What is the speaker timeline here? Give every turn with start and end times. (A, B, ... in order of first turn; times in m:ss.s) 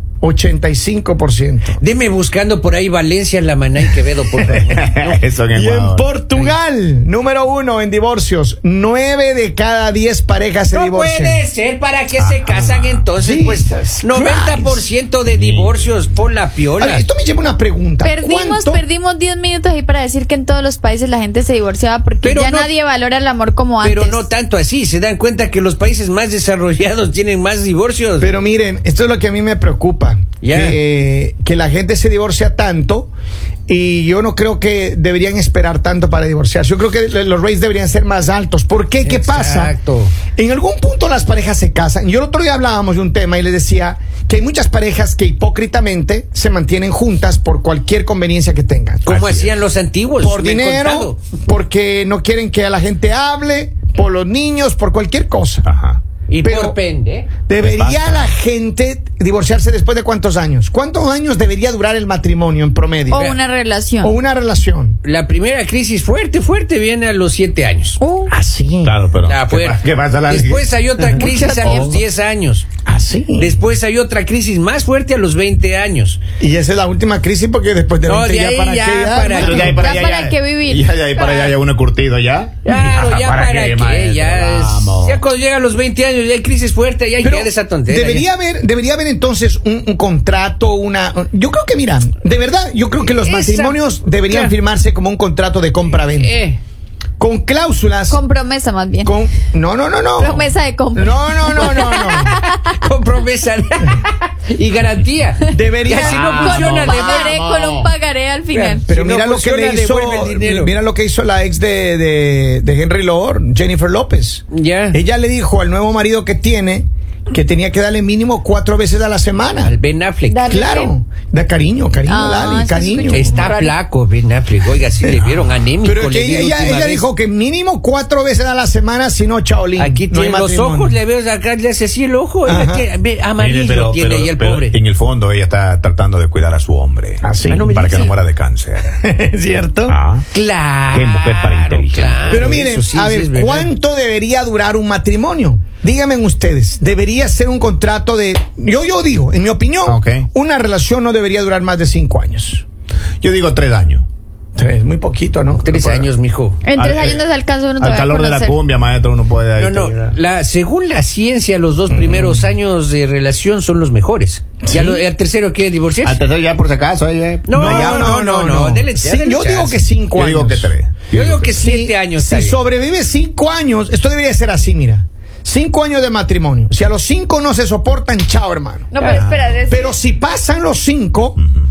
0:00.2-0:01.8 A
0:01.8-0:05.2 B
0:04.4-0:04.6 A
0:04.8-0:06.1 C
0:05.5-0:11.4 A
0:06.2-0:06.5 B
0:10.7-0:17.0 B
0:12.2-0:13.0 C
0:13.2-0:14.8 A
0:15.3-0:16.0 C
0:16.8-0:18.8 A
0:18.0-0:24.3 D
0:22.2-0:22.7 B
0:23.8-0:28.3 B
0:28.2-0:33.1 A
0:30.4-0:30.8 B
0:33.7-0:39.8 A
0:39.0-0:40.1 B
0:40.3-0:49.4 A
0:49.0-0:51.2 B
0:50.2-0:55.6 A
0:55.6-0:56.0 C
0:56.3-0:57.4 B
0:56.4-0:56.8 A
0:57.5-1:03.3 A
0:57.6-0:58.3 C
1:03.1-1:03.4 B
1:03.1-1:04.2 D
1:04.0-1:05.0 A
1:05.0-1:08.0 B
1:08.0-1:08.3 D
1:08.3-1:09.0 A
1:08.8-1:11.2 C
1:09.2-1:12.7 B
1:11.2-1:12.0 D
1:11.6-1:12.0 A
1:12.9-1:13.6 A
1:13.4-1:16.2 B
1:16.4-1:20.0 A
1:18.0-1:19.8 B
1:19.4-1:25.2 C
1:19.6-1:21.4 D
1:22.6-1:28.3 B
1:27.2-1:36.4 A
1:33.1-1:34.5 B
1:36.0-1:36.6 B
1:37.2-1:38.2 A
1:38.1-1:39.1 D
1:39.0-1:42.4 A
1:40.2-1:42.8 D
1:42.5-1:47.2 B
1:45.5-1:47.4 A
1:46.1-1:47.9 C
1:46.4-1:48.8 D
1:48.5-1:50.7 B
1:48.9-1:59.8 A
1:54.5-1:55.0 B
1:59.6-2:00.5 B
2:00.3-2:00.9 D
2:00.5-2:03.4 A
2:02.1-2:03.8 D
2:03.1-2:07.1 B
2:05.8-2:11.0 A
2:09.8-2:14.8 B
2:12.5-2:12.8 A
2:13.4-2:19.0 C
2:17.2-2:17.8 A
2:17.4-2:18.1 B
2:19.0-2:19.9 A
2:19.9-2:20.2 C
2:20.3-2:23.7 B
2:20.9-2:22.2 C
2:22.3-2:32.6 A
2:29.8-2:30.3 C
2:33.2-2:34.0 C
2:34.6-2:36.1 A
2:35.6-2:36.8 B
2:36.6-2:38.6 D
2:36.8-2:37.2 C
2:37.8-2:40.2 C
2:39.6-2:46.2 B
2:41.9-2:42.5 A
2:44.6-2:45.0 A
2:46.0-2:48.1 C
2:47.5-2:50.0 B
2:47.5-2:50.7 A
2:50.2-2:51.6 C
2:51.1-2:52.6 B
2:51.6-3:01.4 A
2:58.9-3:00.0 D
2:59.2-2:59.5 C